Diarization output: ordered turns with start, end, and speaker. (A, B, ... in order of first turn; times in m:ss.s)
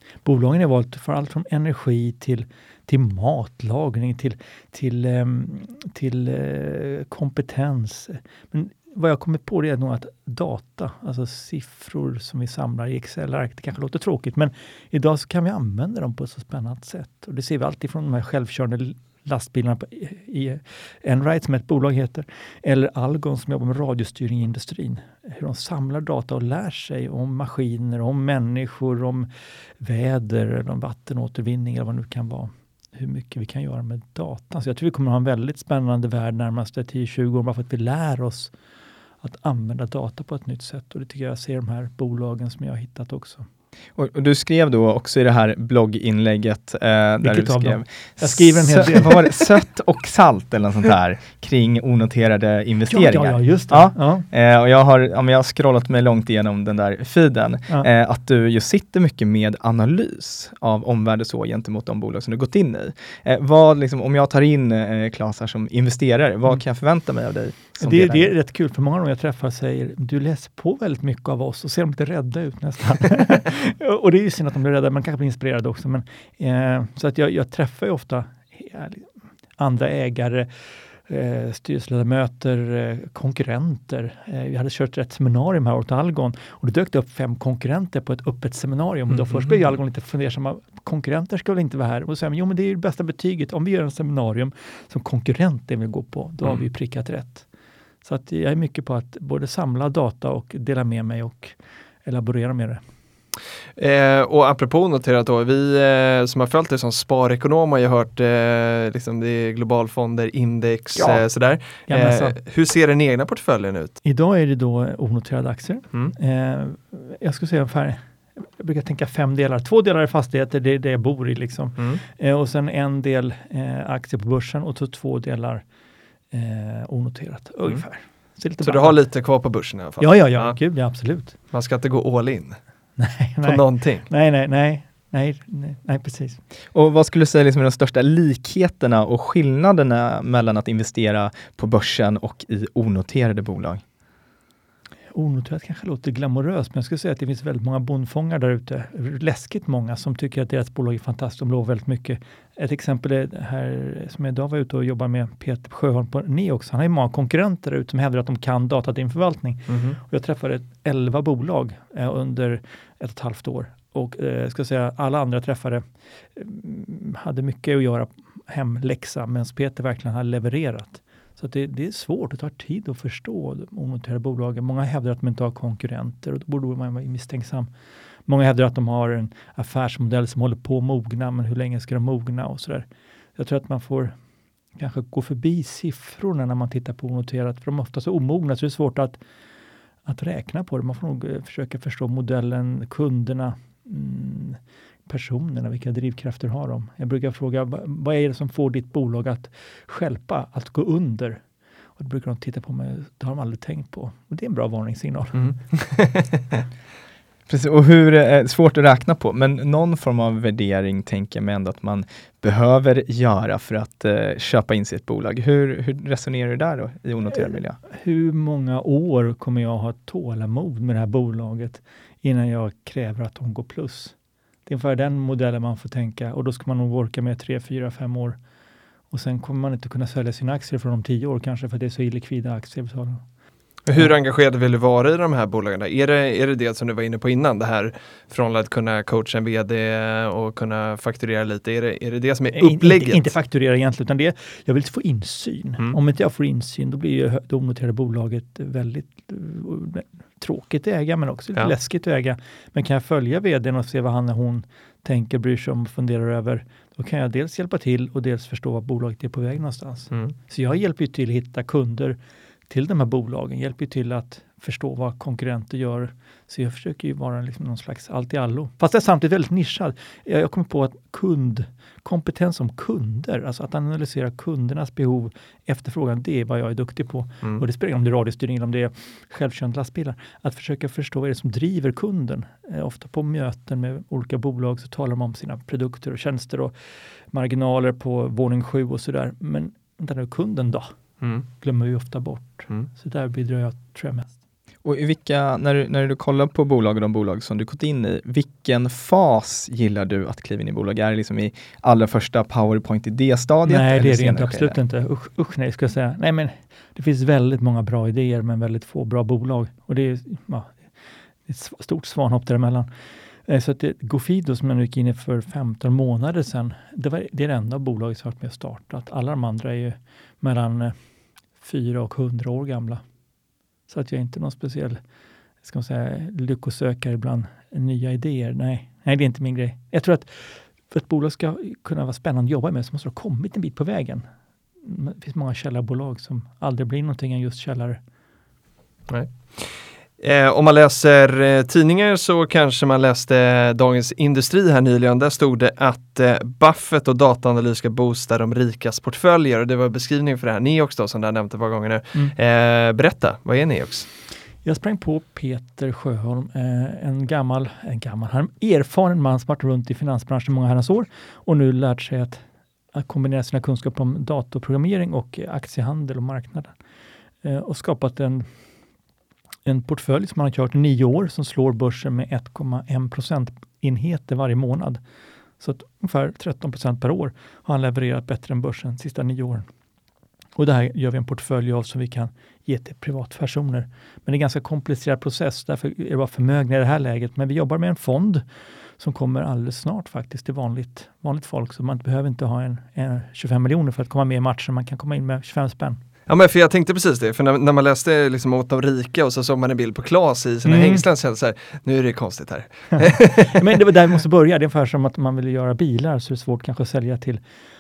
0:00.2-0:38.5 A
0:39.2-0:43.5 A
0:44.0-1:08.3 B
0:47.2-0:49.4 A
0:52.9-0:54.3 A
1:07.8-1:37.5 A
1:29.2-1:29.5 C
1:38.0-1:42.8 A
1:43.8-1:54.0 C
1:51.0-1:51.2 A
1:51.9-1:52.4 A
1:54.0-2:05.6 A
2:06.3-2:09.0 A
2:08.6-2:10.6 C
2:10.0-2:11.4 A
2:11.5-2:12.6 C
2:13.0-2:16.4 A
2:13.4-2:14.1 C
2:16.7-2:23.8 B
2:25.1-2:57.7 A
2:39.7-2:40.0 C
2:58.3-3:04.2 A
3:04.8-3:09.2 A
3:10.0-3:21.4 A
3:22.0-3:25.4 A
3:25.4-3:26.6 C
3:27.5-3:37.8 B
3:37.3-3:48.4 A
3:49.1-3:53.2 A
3:53.9-4:03.3 C
4:02.5-4:22.2 A
4:22.7-4:46.7 A
4:47.3-4:54.3 A
4:54.8-5:04.8 B
5:03.6-5:12.9 A
5:13.4-5:21.0 A
5:21.6-5:23.0 A
5:23.9-5:25.0 A
5:25.6-5:34.3 A
5:34.8-5:38.0 A
5:39.1-5:54.1 C
5:54.6-6:06.8 A
6:07.4-6:08.5 A
6:09.7-6:15.0 A
6:15.6-6:19.7 A
6:20.6-6:28.4 A
6:29.0-6:36.0 A
6:36.3-6:43.6 C
6:40.6-6:41.0 A
6:42.9-6:47.4 A